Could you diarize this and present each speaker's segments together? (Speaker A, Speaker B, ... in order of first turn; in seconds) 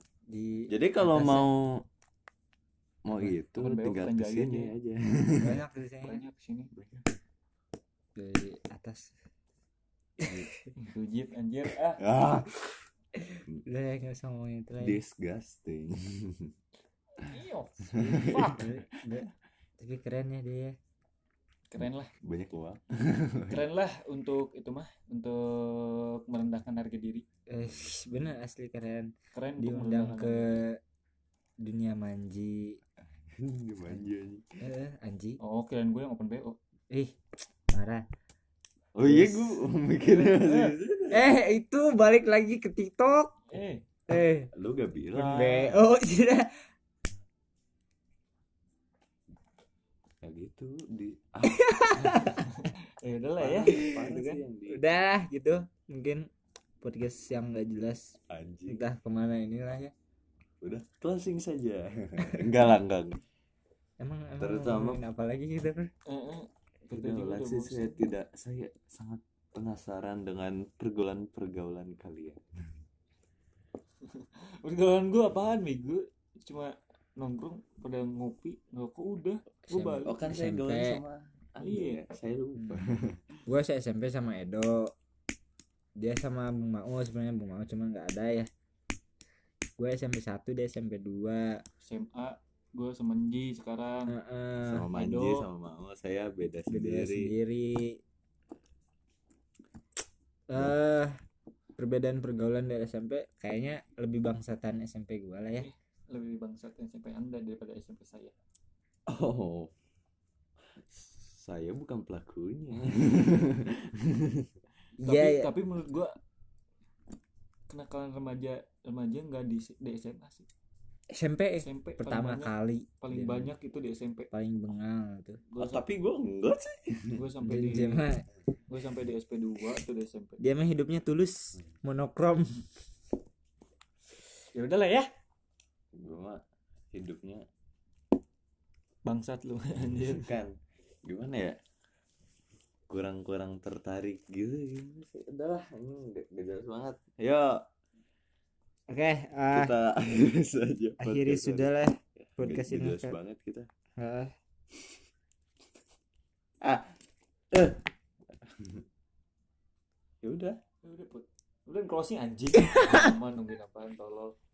Speaker A: 0.3-1.5, 5.3-6.2, 8.2-9.1, 10.2-10.7, 13.2-15.0, 18.0-20.8, 27.5-30.8, 31.6-32.8, 34.6-35.4, 36.9-37.2, 37.7-38.0, 39.0-39.6, 41.1-43.3, 44.1-44.5, 45.2-46.5, 51.5-52.4, 54.7-56.2, 56.8-58.1, 58.7-59.9, 64.0-65.9, 79.7-81.0, 82.6-82.8, 83.5-84.9, 86.0-88.5, 89.8-91.6, 94.1-94.9, 96.7-98.0, 100.5-101.1, 101.8-105.7, 115.0-115.5, 121.1-123.5, 124.3-125.4, 127.4-128.2, 130.4-132.7, 148.9-149.7, 151.0-153.2, 154.0-154.3
Speaker B: 0.7-1.9, 3.0-5.6, 6.7-7.0, 10.2-10.5, 12.0-12.8, 14.8-16.5, 17.9-18.7, 22.2-23.6, 33.4-34.5, 39.0-41.3, 44.5-45.8, 50.2-52.4, 53.4-54.9, 58.3-58.8, 60.6-63.2, 64.4-65.0, 66.9-72.4, 80.0-83.2, 94.6-97.3, 109.1-109.7, 110.9-114.5, 125.6-127.2, 135.9-136.4, 136.9-137.5, 139.9-141.6, 142.9-147.6, 149.5-151.8, 152.4-153.7, 156.6-156.9, 157.5-157.8, 160.2-160.6
Speaker C: 3.6-4.7, 6.0-6.7, 10.8-12.0, 17.3-18.7, 21.7-22.1, 23.5-27.2, 29.4-30.6, 35.4-36.6, 40.1-40.7, 43.5-43.8, 45.2-45.5, 52.5-54.4, 66.1-68.1, 74.2-80.2, 81.6-82.0, 91.8-94.1, 94.9-95.5, 105.6-108.3, 115.0-116.1, 117.7-120.5, 121.6-124.3, 125.5-125.8, 127.1-128.1, 128.7-130.4, 134.5-135.1, 139.1-140.3, 160.8-164.3